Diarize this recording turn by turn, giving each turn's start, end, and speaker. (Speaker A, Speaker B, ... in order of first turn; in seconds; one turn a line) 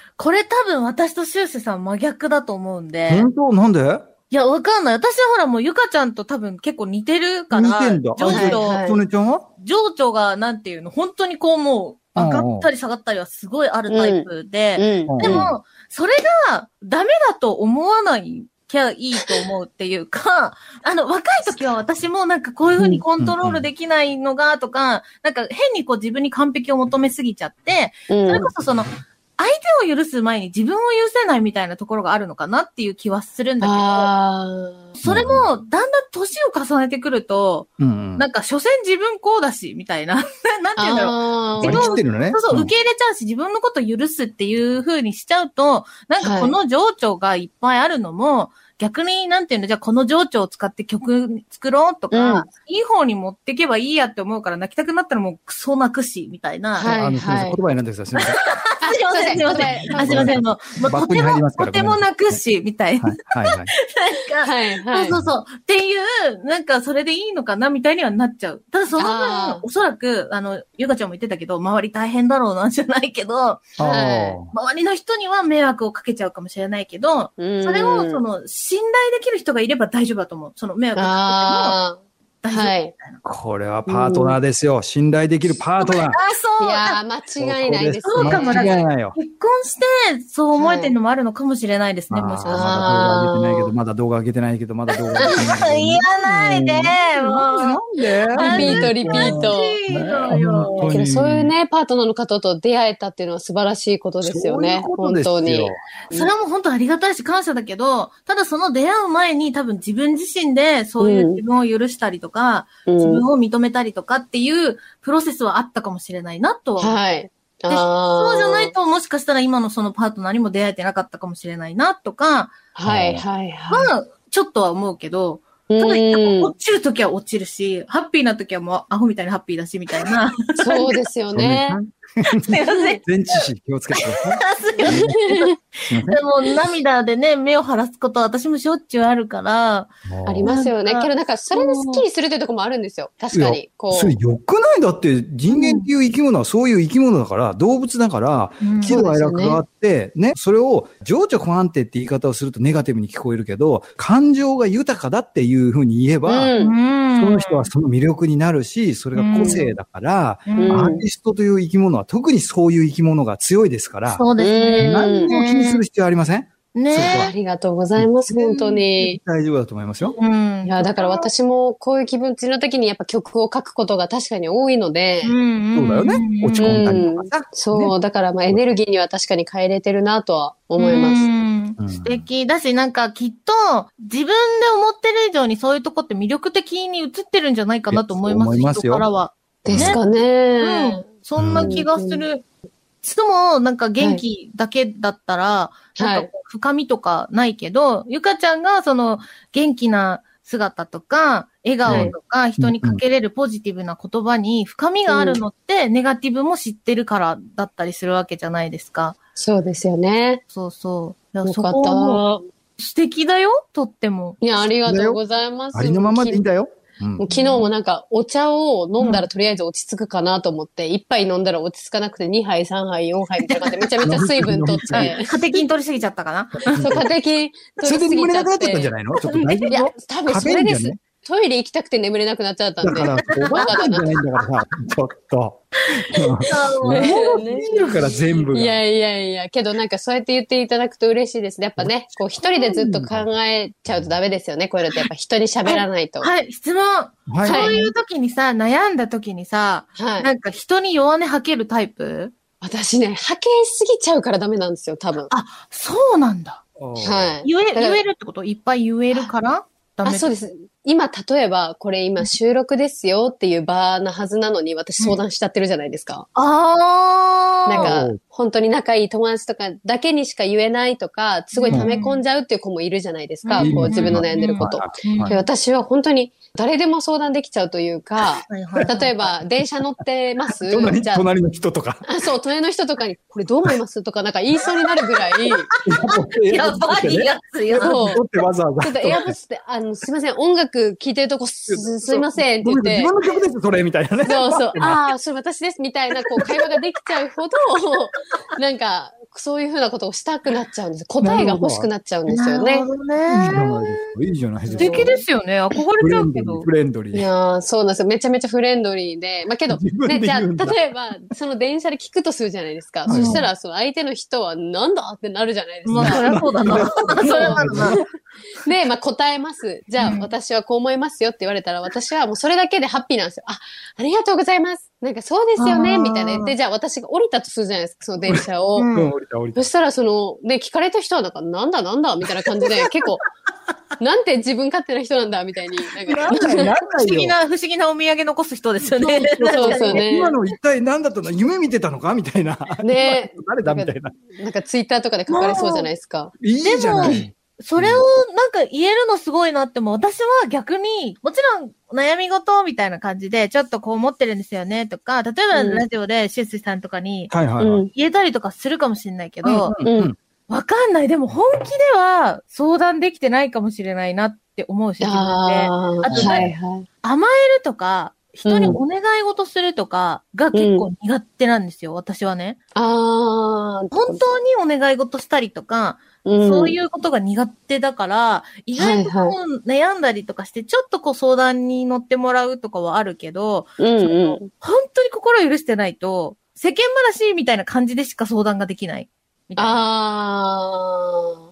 Speaker A: 0.2-3.3
Speaker B: 3.1-4.0
Speaker A: 4.3-8.9
Speaker B: 7.5-9.4
Speaker C: 8.2-9.0
Speaker A: 9.5-34.1
Speaker B: 12.2-12.7
Speaker C: 13.9-15.5
Speaker B: 15.1-15.5
Speaker B: 23.2-23.6
Speaker C: 28.1-28.5
Speaker C: 33.6-34.9
Speaker A: 35.0-56.9
Speaker B: 35.0-35.5
Speaker B: 37.8-38.2
Speaker C: 40.8-42.0
Speaker B: 41.6-42.7
Speaker C: 46.2-46.5
Speaker C: 52.1-52.5
Speaker C: 56.8-57.6
Speaker B: 56.8-58.4
Speaker A: 58.2-81.8
Speaker C: 58.8-60.3
Speaker B: 59.4-62.4
Speaker B: 63.0-63.7
Speaker C: 64.4-65.1
Speaker C: 69.0-69.7
Speaker B: 73.8-74.5
Speaker C: 73.8-74.4
Speaker C: 77.4-78.2
Speaker C: 81.0-82.9
Speaker A: 82.4-83.2
Speaker B: 83.2-86.2
Speaker C: 83.8-84.4
Speaker A: 85.8-87.0
Speaker C: 86.6-88.8
Speaker B: 87.4-89.2
Speaker A: 88.0-93.3
Speaker C: 90.5-90.9
Speaker B: 92.1-101.5
Speaker C: 92.4-93.7
Speaker A: 94.9-100.9
Speaker C: 98.3-99.8
Speaker C: 100.8-106.3
Speaker B: 104.2-105.8
Speaker A: 106.1-117.0
Speaker C: 111.0-111.4
Speaker C: 112.8-113.2
Speaker C: 116.8-118.7
Speaker A: 117.7-122.6
Speaker C: 122.7-123.9
Speaker B: 122.8-123.2
Speaker A: 123.7-131.0
Speaker C: 125.7-126.5
Speaker C: 130.6-131.8
Speaker B: 131.3-135.2
Speaker A: 132.3-133.5
Speaker A: 134.0-139.9
Speaker C: 134.8-135.5
Speaker B: 135.9-136.2
Speaker B: 140.1-140.5
Speaker C: 140.2-144.2
Speaker A: 140.4-142.1
Speaker B: 143.3-156.5
Speaker A: 145.5-145.9
Speaker A: 148.6-149.0
Speaker C: 148.8-149.6
Speaker C: 156.2-156.8
Speaker A: 156.5-157.7
Speaker B: 157.2-164.2
Speaker A: 159.1-159.8
Speaker A: 160.5-161.0
Speaker C: 160.6-161.1
Speaker A: 164.1-165.8
Speaker C: 164.4-165.4
Speaker B: 164.8-167.3
Speaker A: 166.7-167.3
Speaker C: 166.9-169.2
Speaker B: 168.0-170.2
Speaker A: 168.5-168.8
Speaker A: 170.2-171.3
Speaker C: 170.6-175.3
Speaker A: 175.2-177.1
Speaker B: 175.7-177.9
Speaker C: 176.6-181.3
Speaker B: 178.5-178.8
Speaker A: 180.8-190.0
Speaker B: 181.8-182.2
Speaker B: 187.9-189.1
Speaker C: 189.6-192.3
Speaker B: 189.7-190.0
Speaker A: 190.6-192.4
Speaker B: 191.4-191.7
Speaker A: 193.0-209.2
Speaker C: 194.0-194.2
Speaker C: 195.9-196.3
Speaker C: 201.8-202.2
Speaker B: 201.8-203.0
Speaker C: 205.1-205.4
Speaker C: 209.3-210.4
Speaker A: 210.5-212.2
Speaker C: 211.4-212.4
Speaker A: 212.8-214.4
Speaker C: 214.4-216.4
Speaker B: 214.8-215.2
Speaker B: 215.7-217.3
Speaker C: 217.2-225.6
Speaker A: 217.3-217.7
Speaker A: 219.0-219.3
Speaker A: 223.5-224.2
Speaker B: 224.0-225.1
Speaker A: 224.9-227.0
Speaker B: 226.7-227.1
Speaker C: 226.8-228.9
Speaker B: 227.8-231.0
Speaker A: 229.1-229.7
Speaker C: 229.7-234.2
Speaker B: 232.8-238.8
Speaker A: 233.1-233.7
Speaker A: 236.5-238.4
Speaker C: 236.9-246.3
Speaker A: 242.4-242.7
Speaker B: 242.7-243.3
Speaker B: 243.9-244.1
Speaker A: 245.6-252.3
Speaker B: 247.3-247.8
Speaker C: 247.4-247.9
Speaker C: 250.0-250.3
Speaker C: 252.6-255.3
Speaker A: 255.3-256.6
Speaker B: 256.8-257.4
Speaker C: 257.0-258.0
Speaker A: 257.4-260.4
Speaker C: 260.0-266.2
Speaker A: 266.4-268.0
Speaker C: 267.6-281.3
Speaker B: 267.7-268.2
Speaker A: 271.5-272.2
Speaker A: 273.4-275.4
Speaker B: 273.6-275.4
Speaker A: 278.4-279.2
Speaker B: 278.7-279.3
Speaker B: 280.5-282.1
Speaker C: 282.0-285.7
Speaker A: 285.4-288.2
Speaker B: 285.9-289.3
Speaker C: 287.8-288.2
Speaker C: 288.8-293.1
Speaker B: 291.7-295.0
Speaker C: 294.2-302.9
Speaker B: 301.2-301.9
Speaker A: 302.3-304.1
Speaker B: 303.3-305.1
Speaker C: 304.6-305.2
Speaker A: 304.8-306.7
Speaker B: 306.0-307.3
Speaker C: 307.1-318.0
Speaker B: 309.7-310.8
Speaker B: 313.1-313.4
Speaker A: 313.1-313.5
Speaker A: 315.8-318.0
Speaker B: 315.9-318.0
Speaker C: 318.6-328.9
Speaker A: 319.9-320.3
Speaker A: 325.6-326.5
Speaker B: 328.2-329.7
Speaker A: 328.7-329.1
Speaker C: 329.5-333.2
Speaker C: 334.0-336.7
Speaker B: 336.1-337.4
Speaker A: 336.1-340.3
Speaker B: 338.8-344.1
Speaker C: 339.5-340.4
Speaker C: 342.8-346.3
Speaker A: 345.3-345.9
Speaker B: 346.4-348.0
Speaker A: 346.6-359.8
Speaker C: 347.0-347.2
Speaker C: 355.5-355.8
Speaker B: 357.3-357.8
Speaker C: 357.6-357.9
Speaker B: 359.4-360.1
Speaker C: 359.8-360.1
Speaker A: 360.5-366.5
Speaker C: 365.0-366.9
Speaker B: 366.1-366.5
Speaker A: 367.0-372.6
Speaker C: 368.4-368.8
Speaker C: 370.5-370.9
Speaker C: 372.7-374.2
Speaker A: 373.9-389.8
Speaker C: 376.2-376.8
Speaker C: 378.7-379.4
Speaker C: 383.8-384.5
Speaker C: 389.6-391.4